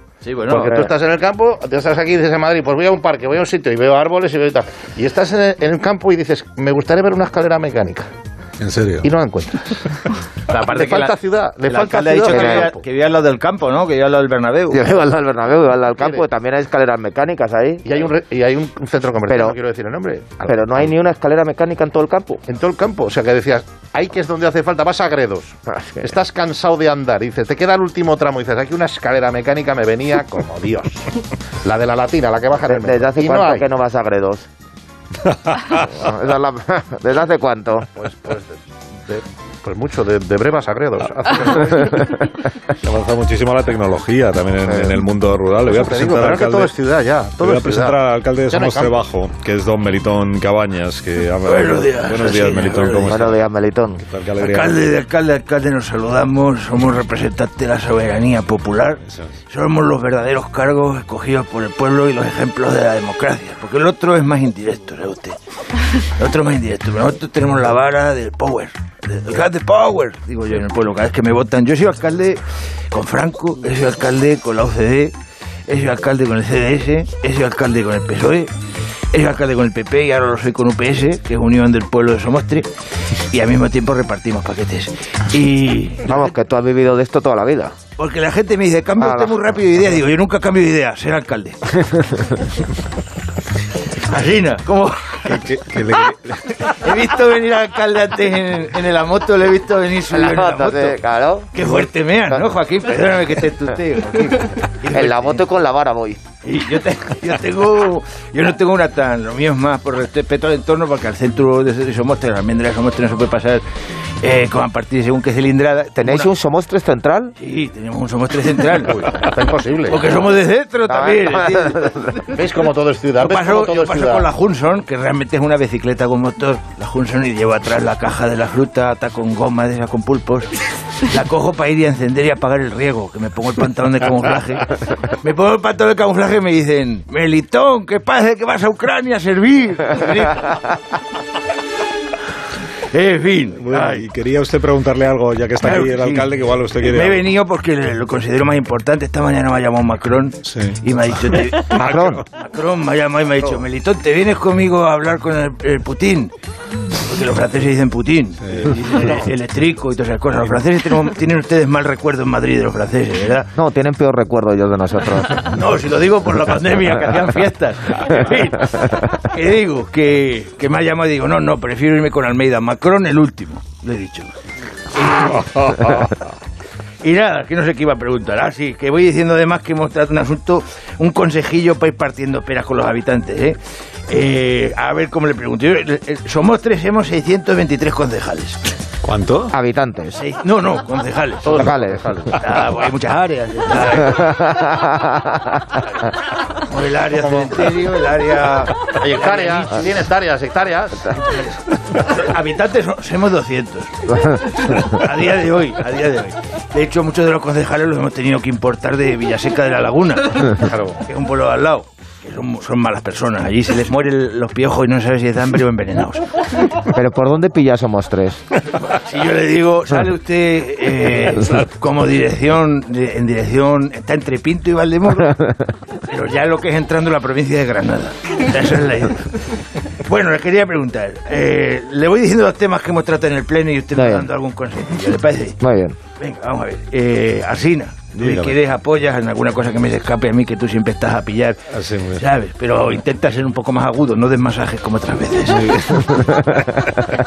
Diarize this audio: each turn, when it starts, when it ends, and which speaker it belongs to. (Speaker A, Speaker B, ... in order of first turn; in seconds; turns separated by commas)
Speaker A: 0.2-0.8, Speaker B: 0.5-8.1, Speaker C: 0.7-0.9, Speaker D: 8.6-9.1, Speaker B: 9.0-9.8, Speaker A: 10.5-14.8, Speaker B: 10.6-12.8, Speaker C: 12.3-12.7, Speaker C: 14.7-18.0, Speaker B: 17.9-20.9, Speaker C: 19.3-19.6, Speaker C: 20.4-22.4, Speaker B: 22.5-31.1, Speaker C: 25.7-26.2, Speaker B: 31.6-33.7, Speaker C: 32.6-34.5, Speaker D: 35.3-35.9, Speaker C: 35.8-37.9, Speaker B: 38.0-42.1, Speaker D: 42.8-46.7, Speaker C: 44.7-44.9, Speaker B: 45.7-49.0, Speaker D: 47.4-53.4, Speaker E: 51.4-53.2, Speaker C: 53.0-54.0, Speaker D: 54.0-54.8, Speaker E: 54.4-65.4, Speaker D: 59.0-59.3, Speaker E: 65.9-75.1, Speaker E: 75.7-78.5, Speaker E: 79.1-82.7, Speaker E: 83.3-86.1, Speaker C: 86.0-87.7, Speaker E: 88.0-91.6, Speaker C: 89.0-89.4, Speaker C: 91.8-92.3, Speaker E: 94.0-95.3, Speaker D: 95.2-96.8, Speaker E: 96.7-101.0, Speaker C: 100.1-101.8, Speaker E: 101.5-105.4, Speaker C: 104.9-106.2, Speaker E: 106.4-113.6, Speaker E: 114.2-116.3, Speaker C: 115.9-117.3, Speaker E: 117.4-119.0, Speaker B: 118.8-120.1, Speaker E: 119.9-122.0, Speaker C: 120.9-122.4, Speaker B: 122.3-124.3, Speaker E: 123.2-140.6, Speaker E: 142.9-144.1, Speaker D: 143.6-147.3, Speaker E: 145.6-156.3, Speaker D: 150.4-152.2, Speaker C: 151.7-152.2, Speaker E: 156.9-163.5, Speaker D: 158.4-158.8, Speaker C: 163.6-165.6, Speaker E: 165.4-174.3, Speaker E: 175.0-175.3, Speaker D: 175.2-176.1, Speaker E: 177.0-188.6, Speaker D: 189.0-189.5, Speaker C: 189.5-190.2, Speaker E: 190.1-191.6, Speaker B: 191.4-192.4, Speaker C: 191.5-192.1, Speaker E: 192.4-194.6, Speaker C: 194.1-195.8, Speaker E: 196.5-199.8, Speaker B: 197.2-197.6, Speaker B: 198.9-201.2, Speaker E: 201.2-216.2, Speaker B: 210.6-211.0, Speaker C: 216.8-218.4, Speaker E: 218.8-225.4, Speaker C: 225.2-225.6, Speaker E: 226.0-229.2, Speaker E: 230.0-235.6, Speaker C: 233.9-234.3, Speaker C: 235.6-236.0, Speaker E: 236.2-241.6, Speaker D: 238.1-238.6, Speaker D: 241.7-242.2, Speaker E: 242.1-245.7, Speaker D: 245.5-246.5, Speaker C: 246.0-246.8